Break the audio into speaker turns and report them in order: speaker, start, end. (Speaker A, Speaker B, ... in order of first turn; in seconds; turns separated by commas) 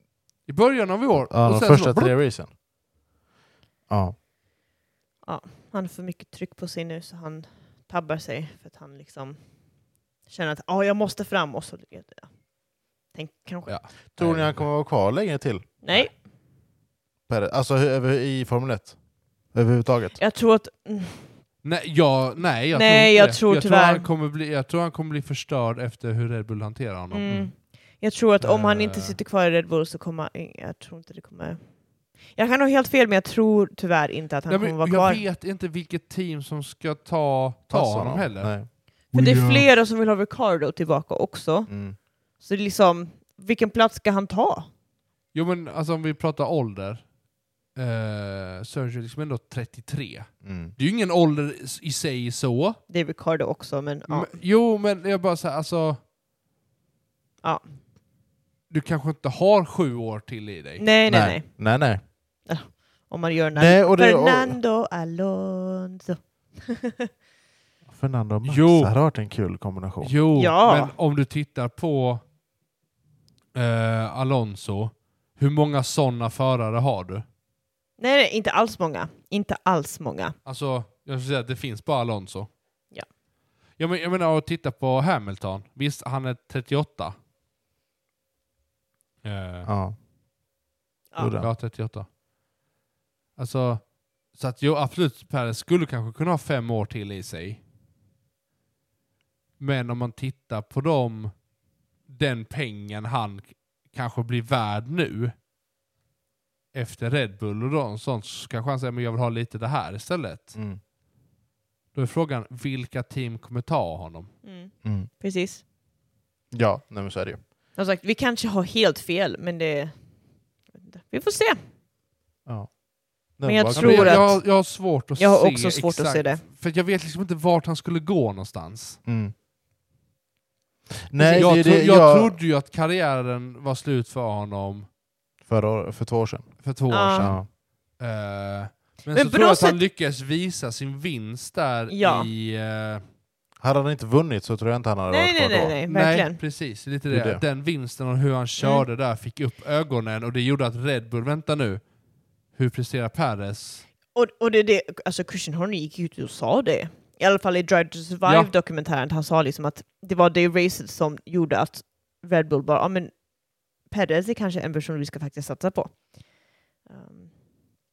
Speaker A: 0.5-2.1, Speaker B: 1.2-2.5, Speaker B: 3.9-4.1, Speaker C: 5.2-9.4, Speaker C: 10.2-12.4, Speaker C: 13.1-13.8, Speaker A: 13.7-14.7, Speaker B: 14.2-16.1, Speaker C: 15.8-16.1, Speaker B: 17.3-19.0, Speaker B: 19.5-20.2, Speaker C: 20.2-21.4, Speaker A: 21.6-27.5, Speaker C: 22.7-24.1, Speaker C: 27.1-35.2, Speaker A: 28.4-29.2, Speaker A: 34.5-38.6, Speaker B: 37.7-39.7, Speaker C: 39.1-41.7, Speaker A: 39.1-39.4, Speaker B: 41.7-42.0, Speaker C: 42.3-44.7, Speaker A: 45.3-47.0, Speaker A: 47.7-52.8, Speaker B: 50.4-50.7, Speaker C: 52.9-54.4, Speaker A: 54.1-56.0, Speaker A: 58.7-60.9, Speaker C: 60.8-61.5, Speaker B: 61.1-62.0, Speaker C: 62.4-67.1, Speaker B: 63.5-64.6, Speaker B: 67.9-70.1, Speaker A: 68.5-68.9, Speaker A: 70.0-72.2, Speaker C: 70.3-70.9, Speaker A: 73.5-77.2, Speaker C: 78.0-80.3, Speaker A: 80.4-82.5, Speaker A: 83.8-87.1, Speaker A: 89.2-89.7, Speaker B: 89.6-90.0, Speaker B: 91.2-91.5, Speaker A: 91.4-92.1, Speaker A: 93.4-97.6, Speaker A: 99.6-101.3, Speaker A: 102.0-105.3, Speaker A: 106.7-110.6, Speaker A: 111.9-114.3, Speaker C: 114.4-115.6, Speaker B: 114.8-115.1, Speaker B: 116.5-117.4, Speaker C: 117.7-120.1, Speaker C: 120.7-121.6, Speaker B: 122.5-124.4, Speaker C: 123.4-124.6, Speaker A: 123.7-129.0, Speaker C: 125.2-126.4, Speaker B: 129.1-129.3, Speaker B: 131.1-132.4, Speaker C: 131.2-131.5, Speaker A: 131.3-134.9, Speaker B: 135.4-136.6, Speaker A: 136.6-143.0, Speaker C: 136.9-137.3, Speaker B: 137.1-137.5, Speaker C: 139.1-139.8, Speaker C: 141.9-142.3, Speaker B: 143.6-145.8, Speaker C: 145.1-146.4, Speaker A: 145.9-151.8, Speaker B: 147.1-147.4, Speaker C: 148.6-148.8, Speaker A: 152.5-153.8, Speaker C: 154.1-167.3